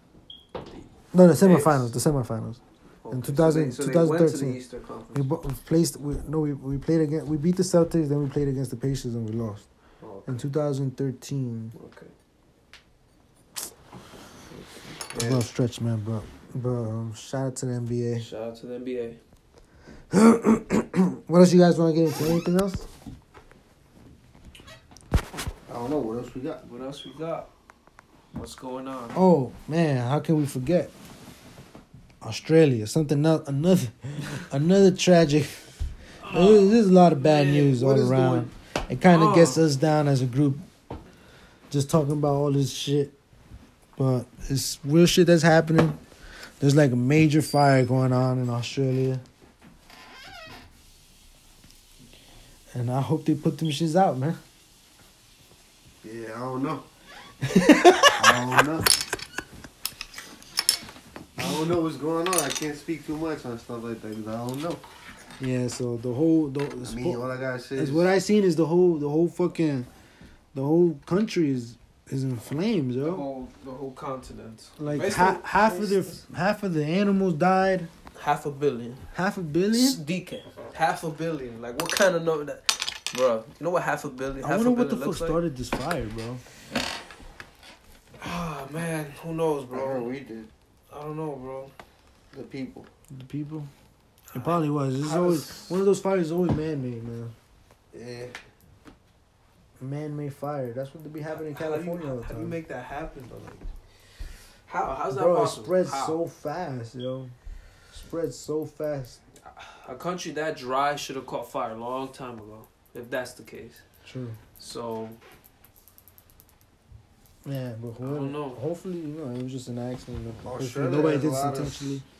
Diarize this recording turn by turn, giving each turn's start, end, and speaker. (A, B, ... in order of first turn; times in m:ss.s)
0:01.1-0:04.6 A
0:01.4-0:01.9 B
0:03.0-0:05.3 B
0:05.1-0:09.7 A
0:10.0-0:10.4 B
0:10.2-0:11.7 A
0:11.7-0:12.1 B
0:14.5-0:14.9 B
0:15.1-0:15.4 C
0:15.1-0:18.3 A
0:18.2-0:19.2 B
0:20.1-0:22.9 A
0:25.7-0:26.6 C
0:26.6-0:27.5 B
0:28.3-0:29.2 B
0:29.1-0:30.9 A
0:32.2-0:35.5 A
0:36.2-0:38.1 B
0:36.2-0:40.6 A
0:37.8-0:38.5 C
0:39.1-0:39.6 B
0:41.7-0:43.1 A
0:44.0-0:46.0 A
0:46.6-0:49.2 A
0:52.7-0:54.4 A
0:56.0-0:56.8 C
0:57.4-0:58.3 A
0:58.2-0:58.9 C
1:01.4-1:04.8 C
1:05.4-1:07.2 A
1:06.8-1:08.1 C
1:07.8-1:09.9 A
1:10.5-1:13.2 A
1:13.0-1:16.2 B
1:14.8-1:17.9 A
1:18.1-1:19.0 B
1:19.1-1:20.0 A
1:19.7-1:25.4 B
1:24.4-1:26.4 A
1:28.2-1:30.1 B
1:29.7-1:30.5 C
1:30.9-1:31.7 B
1:32.3-1:32.9 C
1:33.1-1:33.7 A
1:34.3-1:35.8 B
1:34.3-1:37.3 A
1:37.9-1:38.4 C
1:39.8-1:42.6 A
1:41.3-1:43.7 B
1:44.7-1:46.2 B
1:45.1-1:47.3 A
1:47.9-1:49.2 A
1:49.5-1:53.8 B
1:54.0-1:54.4 A
1:54.6-1:55.2 B
1:57.4-2:02.0 A
1:58.0-1:58.6 B
2:00.4-2:01.9 C